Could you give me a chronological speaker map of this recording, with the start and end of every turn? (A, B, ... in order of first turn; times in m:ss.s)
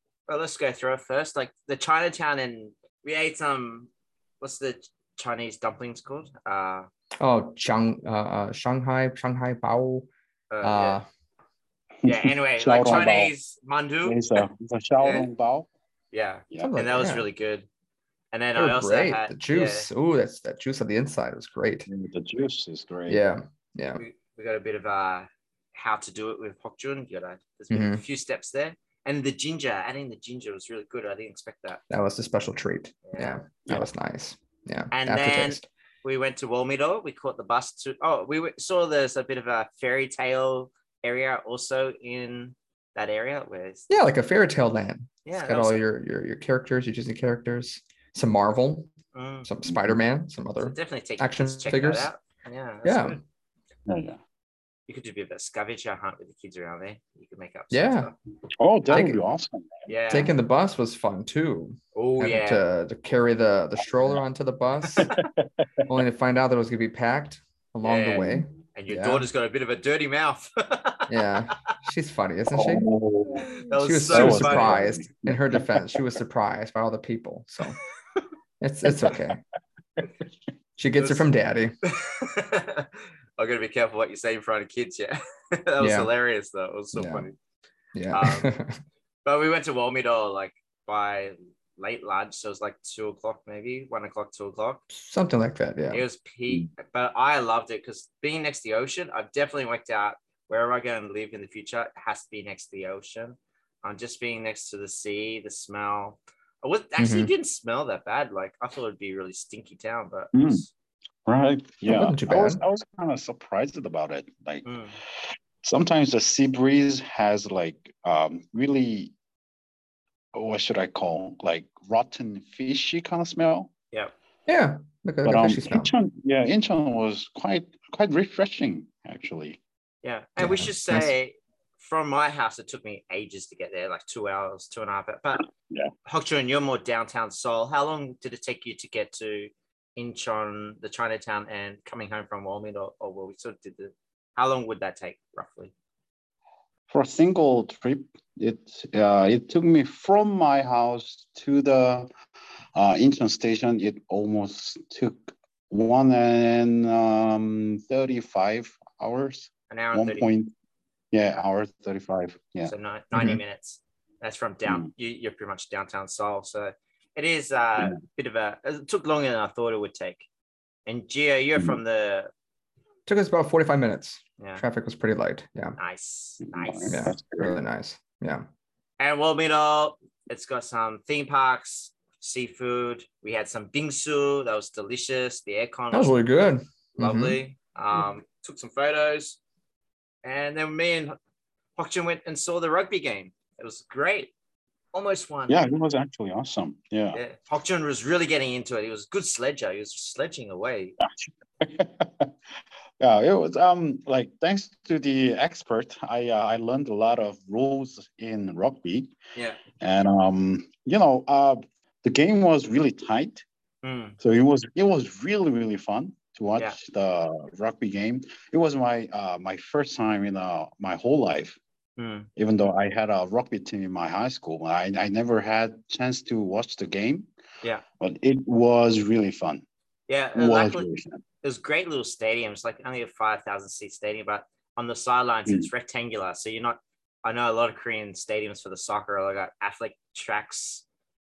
0:00.3-0:03.9 A
0:04.4-0:06.9 A
0:07.2-0:10.1 B
0:10.5-0:11.0 A
0:10.6-0:11.1 B
0:12.0-0:13.3 C
0:12.0-0:14.4 A
0:14.0-0:15.7 C
0:15.0-0:15.3 A
0:16.1-0:17.6 A
0:16.6-0:17.2 B
0:18.3-0:19.9 A
0:18.6-0:21.9 B
0:21.9-0:23.2 C
0:23.1-0:24.0 B
0:24.0-0:31.8 A
0:27.7-0:28.0 B
0:31.9-0:35.6 B
0:33.0-0:33.4 A
0:34.9-0:43.9 A
0:43.9-0:48.9 B
0:45.2-0:45.8 A
0:49.1-0:49.5 A
0:49.4-0:52.1 B
0:49.7-0:49.9 C
0:50.6-0:53.2 A
0:52.8-0:53.2 B
0:53.9-0:54.2 C
0:54.9-0:58.1 A
0:57.7-0:58.1 B
0:58.6-0:59.9 C
0:58.9-0:59.2 B
0:59.9-1:00.3 A
1:00.1-1:05.1 B
1:01.9-1:02.6 A
1:04.9-1:05.2 A
1:05.9-1:09.2 B
1:07.8-1:11.1 A
1:11.1-1:12.9 B
1:12.5-1:16.0 C
1:13.6-1:14.8 A
1:13.7-1:17.8 B
1:18.6-1:19.4 B
1:18.9-1:19.2 C
1:20.8-1:21.7 B
1:21.0-1:21.2 A
1:21.8-1:27.3 A
1:25.8-1:26.1 B
1:26.9-1:27.2 B
1:27.9-1:28.8 B
1:28.1-1:28.5 A
1:29.2-1:34.8 A
1:34.9-1:36.0 B
1:35.9-1:50.7 A
1:47.0-1:47.3 B
1:50.3-1:50.6 C
1:51.2-1:54.7 C
1:51.9-1:52.6 B
1:54.6-1:55.0 A
1:55.2-1:59.1 C
2:00.3-2:03.7 C
2:04.5-2:05.9 B
2:05.2-2:09.6 C
2:10.0-2:15.5 A
2:10.4-2:11.1 B
2:16.0-2:25.7 A
2:26.9-2:32.1 C
2:32.7-2:40.5 C
2:39.7-2:40.3 A
2:41.1-2:42.7 C
2:42.6-2:50.2 A
2:43.1-2:43.4 B
2:50.8-2:52.3 A
2:53.1-2:55.8 B
2:54.4-2:54.6 A
2:55.8-2:57.0 A
2:56.4-2:57.6 C
2:56.9-2:58.4 B
2:59.0-3:06.1 A
3:05.9-3:07.4 B
3:07.0-3:09.4 A
3:10.2-3:11.2 A
3:11.8-3:14.3 A
3:14.9-3:15.6 A
3:15.5-3:17.2 C
3:17.1-3:21.0 A
3:21.0-3:22.3 C
3:23.0-3:29.1 C
3:29.4-3:29.6 A
3:29.8-3:33.4 C
3:33.8-3:34.2 A
3:34.2-3:41.6 C
3:42.0-3:42.3 A
3:42.4-3:47.3 C
3:48.0-3:49.6 C
3:50.1-3:50.9 A
3:50.3-3:51.2 C
3:51.4-4:00.8 A